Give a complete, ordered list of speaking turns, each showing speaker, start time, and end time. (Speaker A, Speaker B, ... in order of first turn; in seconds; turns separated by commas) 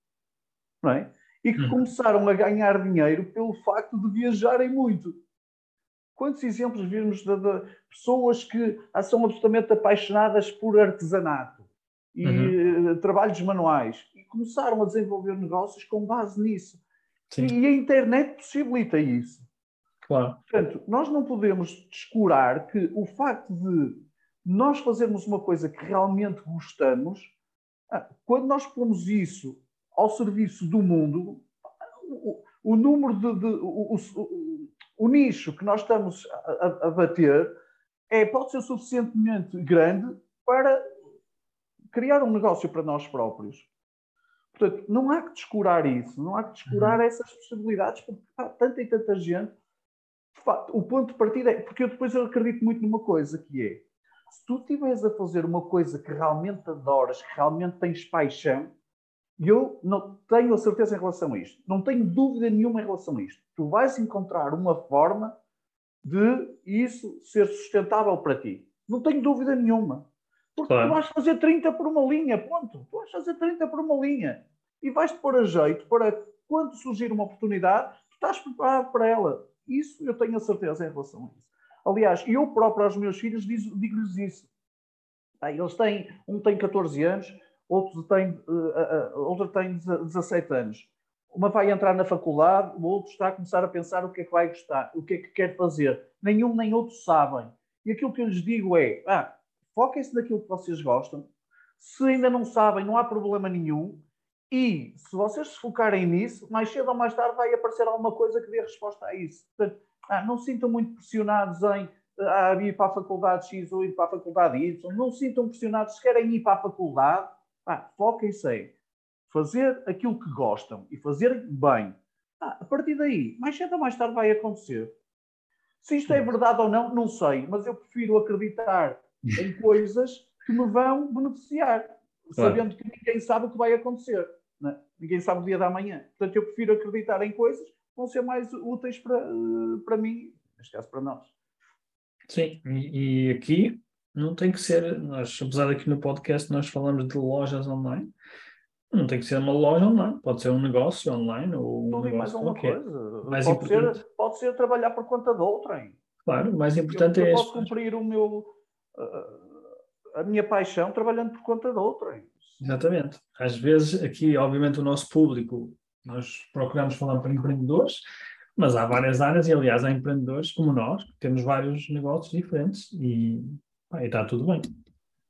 Speaker A: 0.8-5.1, Speaker A: 6.2-16.8, Speaker B: 12.2-12.6, Speaker A: 17.4-19.4, Speaker B: 20.1-20.4, Speaker A: 20.5-27.3, Speaker A: 27.9-31.5, Speaker A: 32.0-37.5, Speaker A: 38.1-40.8, Speaker A: 41.9-43.7, Speaker A: 44.5-49.5, Speaker B: 46.7-47.0, Speaker A: 50.4-58.7, Speaker A: 59.4-65.3, Speaker A: 66.0-70.0, Speaker A: 70.6-84.5, Speaker B: 70.7-71.0, Speaker A: 85.4-101.3, Speaker A: 101.8-118.7, Speaker A: 119.3-124.9, Speaker A: 125.8-141.3, Speaker B: 132.4-132.6, Speaker B: 142.3-148.1, Speaker B: 148.9-154.0, Speaker A: 151.9-156.0, Speaker B: 156.3-157.7, Speaker A: 156.9-159.7, Speaker A: 160.2-162.6, Speaker B: 162.6-168.0, Speaker B: 168.6-174.6